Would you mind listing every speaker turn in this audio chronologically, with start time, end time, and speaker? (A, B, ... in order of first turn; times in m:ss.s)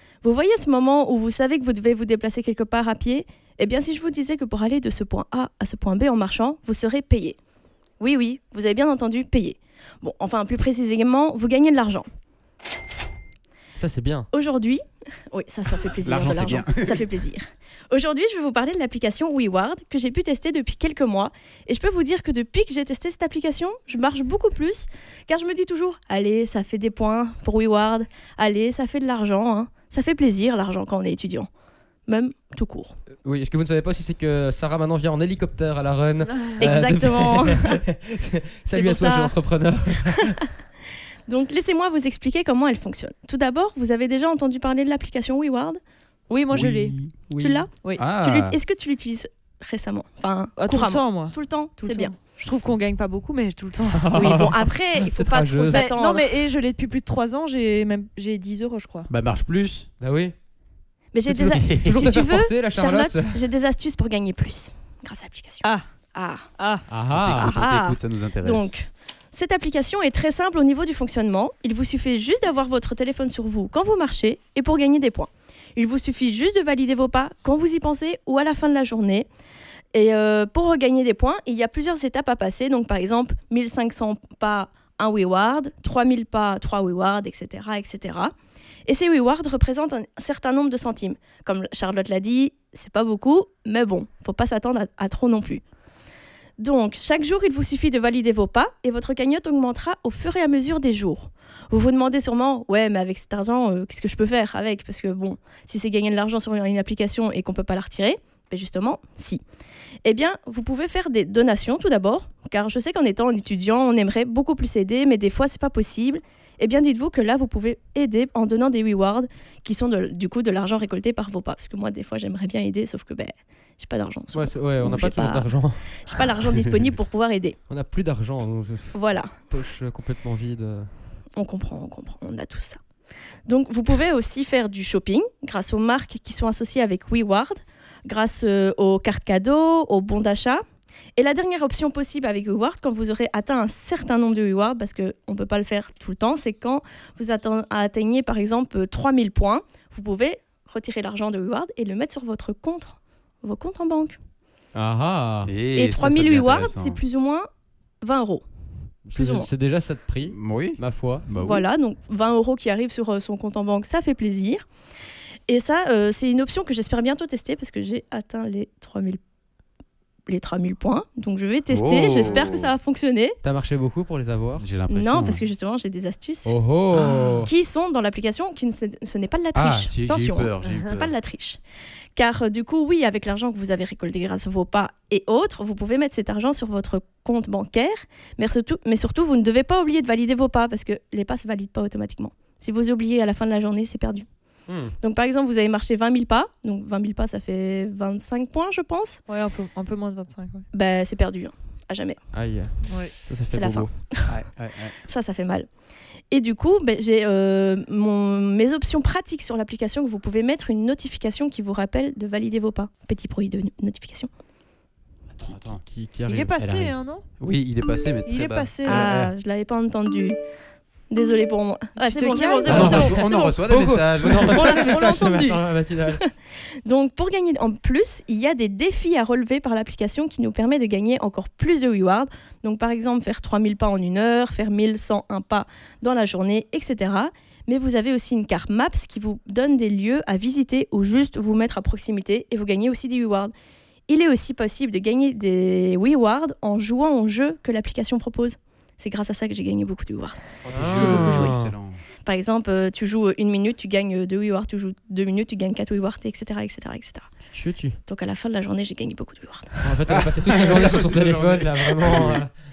0:00.2-0:07.4 A
0:08.0-0:12.1 A
0:13.8-0:14.3 B
0:14.3-0:31.5 A
0:16.0-0:17.0 C
0:32.1-0:33.0 A
0:33.2-0:40.4 B
0:36.6-0:37.8 A
0:38.7-0:39.3 A
0:39.9-0:40.4 A
0:41.3-0:45.8 A
0:46.3-0:47.0 D
0:46.5-0:47.1 C
0:47.3-0:47.7 B
0:47.4-0:52.1 A
0:47.7-0:48.0 D
0:48.0-0:48.6 C
0:50.6-0:54.4 D
0:53.9-0:56.0 B
0:54.1-0:56.3 A
0:55.7-0:59.1 D
0:59.1-0:59.9 C
1:00.0-1:00.4 B
1:01.1-1:06.5 A
1:01.3-1:03.4 B
1:01.5-1:02.2 C
1:06.6-1:06.8 D
1:06.9-1:07.5 B
1:07.1-1:08.7 C
1:07.3-1:19.3 A
1:19.9-1:28.3 A
1:28.9-1:35.6 A
1:36.6-1:49.4 A
1:50.0-2:07.6 A
2:04.3-2:06.2 B
2:07.7-2:10.9 B
2:08.9-2:09.4 A
2:11.4-2:12.8 A
2:13.5-2:20.6 A
2:21.2-2:34.2 A
2:34.7-2:35.5 B
2:35.5-2:37.0 C
2:35.7-2:37.5 A
2:38.0-2:38.4 A
2:39.1-2:41.3 B
2:39.1-2:39.5 A
2:40.2-2:41.6 C
2:41.4-2:44.6 A
2:45.5-2:49.2 A
2:50.3-2:53.4 A
2:51.7-2:52.8 C
2:53.4-2:54.7 B
2:54.6-2:55.4 C
2:54.9-3:01.6 A
2:56.5-2:57.5 B
2:59.5-3:01.1 C
3:02.2-3:14.3 A
3:14.7-3:15.0 B
3:15.0-3:19.2 A
3:19.3-3:20.6 D
3:20.7-3:22.2 A
3:22.3-3:23.9 B
3:22.9-3:23.2 D
3:23.5-3:24.3 A
3:24.3-3:25.0 C
3:25.0-3:25.7 A
3:26.3-3:34.3 A
3:35.3-3:35.8 C
3:35.4-3:36.5 B
3:36.3-3:37.3 D
3:36.6-3:39.2 C
3:38.3-3:39.1 D
3:38.8-3:40.4 A
3:41.1-3:43.6 A
3:42.0-3:43.2 D
3:42.6-3:45.0 C
3:42.7-3:46.2 B
3:44.2-3:46.3 A
3:46.8-4:03.5 A
4:04.1-4:11.6 A
4:10.6-4:12.0 C
4:10.7-4:11.7 B
4:12.2-4:17.3 A
4:17.5-4:18.0 B
4:18.1-4:20.0 A
4:19.8-4:22.5 B
4:20.1-4:22.4 C